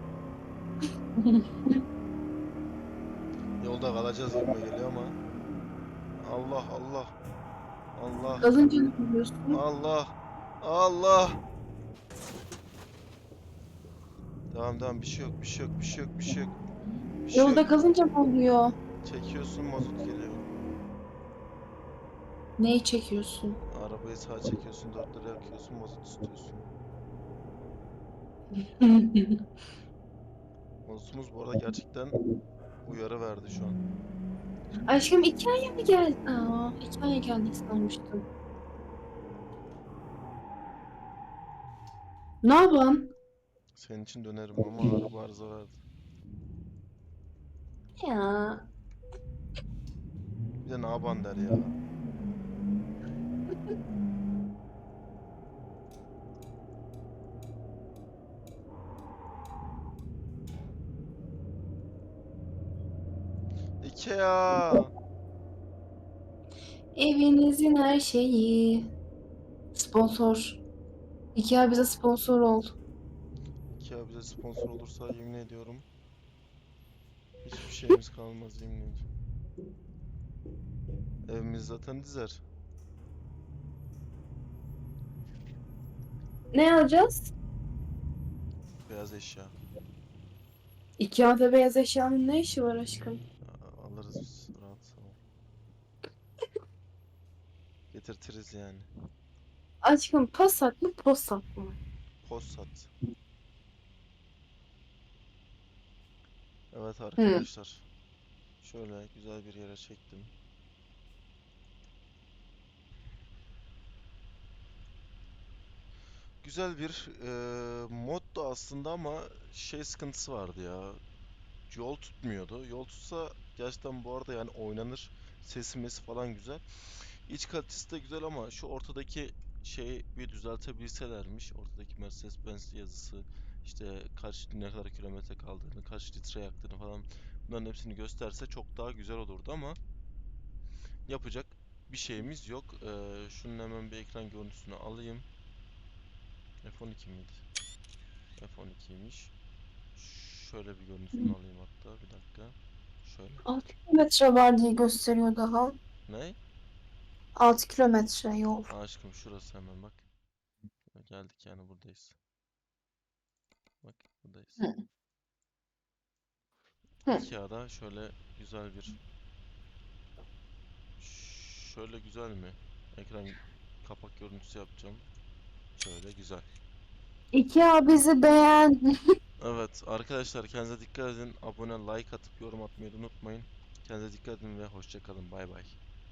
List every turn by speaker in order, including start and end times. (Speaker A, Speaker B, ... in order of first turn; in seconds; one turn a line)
Speaker A: 1.2-1.8
Speaker B: 3.6-5.2
Speaker B: 6.2-7.1
Speaker B: 8.0-8.6
Speaker A: 8.4-9.6
Speaker B: 9.5-11.4
Speaker B: 14.5-16.6
Speaker B: 17.2-17.9
Speaker A: 17.3-18.8
Speaker B: 19.0-20.4
Speaker A: 22.6-23.6
Speaker B: 23.7-26.7
Speaker A: 28.5-29.4
Speaker B: 30.9-32.2
Speaker B: 32.8-33.8
Speaker A: 34.9-38.2
Speaker A: 42.4-43.1
Speaker B: 43.8-45.8
Speaker A: 48.0-48.7
Speaker B: 50.6-51.8
Speaker B: 63.8-64.9
Speaker A: 67.0-68.9
Speaker A: 69.8-70.6
Speaker A: 71.3-72.8
Speaker B: 73.7-75.9
Speaker B: 77.4-79.0
Speaker B: 81.3-82.4
Speaker A: 86.5-87.3
Speaker B: 88.9-89.6
Speaker A: 91.0-93.2
Speaker B: 93.4-95.2
Speaker B: 97.9-98.9
Speaker A: 99.8-101.8
Speaker B: 102.2-102.9
Speaker B: 106.7-107.9
Speaker A: 107.2-107.5
Speaker B: 108.6-110.3
Speaker B: 116.4-121.0
Speaker B: 121.7-139.8
Speaker B: 141.1-145.3
Speaker B: 146.6-147.4
Speaker B: 148.4-149.3
Speaker B: 149.9-153.5
Speaker A: 153.5-155.8
Speaker B: 156.1-156.4
Speaker A: 157.4-158.7
Speaker B: 158.7-160.1
Speaker B: 160.9-162.2
Speaker B: 163.8-164.7
Speaker B: 167.1-169.0
Speaker B: 171.0-175.1
Speaker B: 175.8-176.5
Speaker A: 177.3-179.1
Speaker B: 179.4-185.8